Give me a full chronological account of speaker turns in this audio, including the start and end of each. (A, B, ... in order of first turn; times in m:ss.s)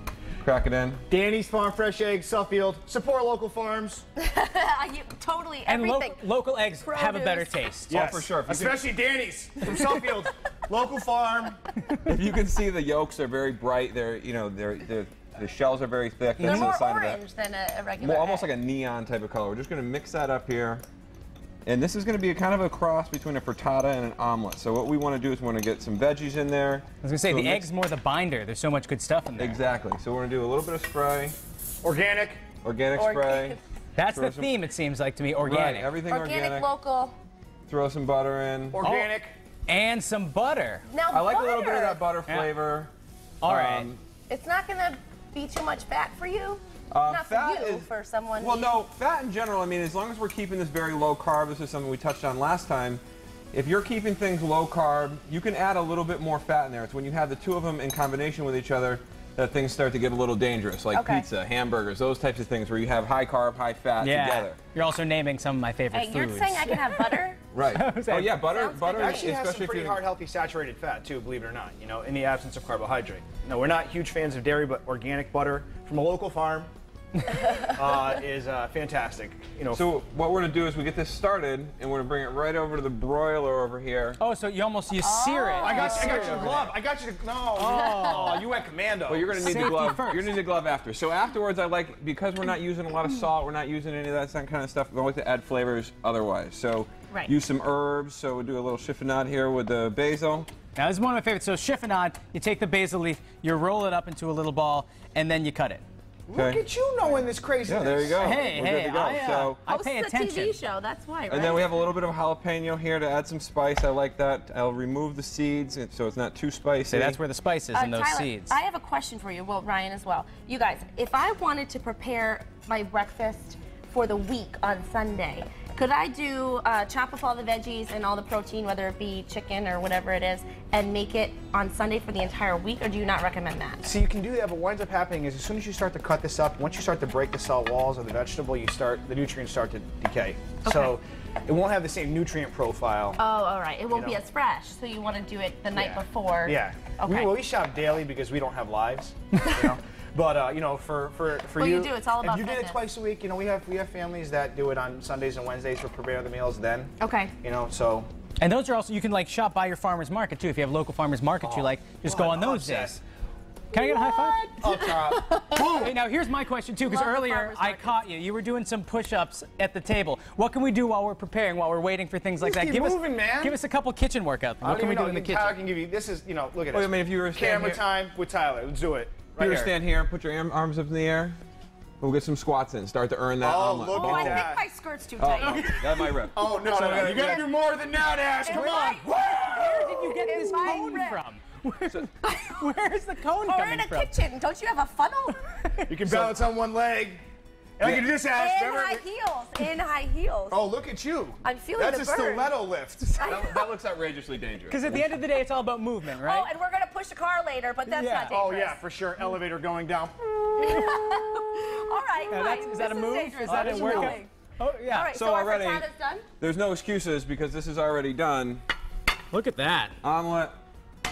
0:00.4-0:01.0 A
0:01.1-0:04.0 B
0:04.2-0:06.2 C
0:05.7-0:07.9 D
0:06.8-0:07.6 C
0:07.9-0:08.8 A
0:07.9-0:11.6 B
0:12.0-0:17.2 A
0:16.4-0:16.7 D
0:16.4-0:18.5 C
0:18.0-0:20.8 A
0:21.6-0:27.7 A
0:27.0-0:29.6 D
0:29.4-0:31.4 A
0:31.8-0:32.4 B
0:32.6-0:34.5 A
0:32.9-0:33.6 C
0:34.0-0:35.9 D
0:35.4-0:36.7 A
0:36.1-0:37.1 C
0:37.7-0:38.8 A
0:38.7-0:39.3 B
0:38.8-0:39.1 D
0:39.7-0:40.8 D
0:40.9-0:42.0 C
0:41.1-0:42.9 A
0:43.4-0:43.9 D
0:43.4-0:44.0 A
0:44.3-0:48.8 C
0:46.9-0:53.0 A
0:53.5-1:04.6 A
1:00.9-1:01.2 C
1:04.0-1:07.0 D
1:05.9-1:07.4 C
1:07.5-1:10.0 A
1:07.7-1:08.4 D
1:08.4-1:09.3 C
1:08.9-1:16.7 B
1:17.7-1:19.8 B
1:19.7-1:24.2 A
1:24.2-1:26.7 D
1:25.0-1:26.6 C
1:25.6-1:29.8 B
1:27.5-1:28.5 D
1:29.1-1:40.5 A
1:29.4-1:30.4 D
1:40.8-1:45.8 D
1:46.3-1:48.5 B
1:46.3-1:46.6 A
1:47.6-1:49.6 A
1:48.2-1:50.6 D
1:49.7-1:51.7 C
1:51.3-1:57.2 A
1:56.9-1:58.5 D
1:57.7-2:13.8 C
2:13.8-2:23.2 B
2:20.6-2:21.0 C
2:23.2-2:27.4 C
2:23.9-2:24.2 B
2:25.7-2:38.1 B
2:31.6-2:32.8 C
2:37.0-2:37.3 C
2:38.4-2:43.0 D
2:41.4-2:43.0 B
2:43.7-2:44.7 D
2:43.8-2:45.9 B
2:45.2-2:45.6 C
2:45.5-2:55.6 D
2:46.8-2:48.0 C
2:52.4-2:53.6 B
2:54.6-2:59.7 B
2:56.7-2:57.8 A
2:59.4-3:01.4 A
3:02.0-3:04.5 A
3:03.4-3:04.6 B
3:03.9-3:06.1 C
3:05.2-3:07.5 A
3:05.4-3:10.0 B
3:07.0-3:07.4 C
3:08.4-3:09.1 C
3:08.5-3:14.1 D
3:09.7-3:11.2 C
3:12.2-3:12.7 C
3:13.4-3:15.4 C
3:15.4-3:16.0 D
3:15.9-3:17.2 B
3:17.8-3:19.0 B
3:17.8-3:18.1 A
3:18.2-3:20.6 C
3:20.5-3:23.2 B
3:21.4-3:22.5 C
3:23.2-3:23.7 C
3:23.2-3:25.1 A
3:24.7-3:26.5 D
3:26.2-3:28.8 C
3:27.9-3:28.3 D
3:28.3-3:30.9 B
3:30.6-3:34.3 C
3:32.3-3:35.1 D
3:33.4-3:34.2 B
3:34.9-3:36.2 C
3:35.1-3:35.8 A
3:36.4-3:38.6 A
3:39.3-3:40.0 D
3:40.0-3:40.6 A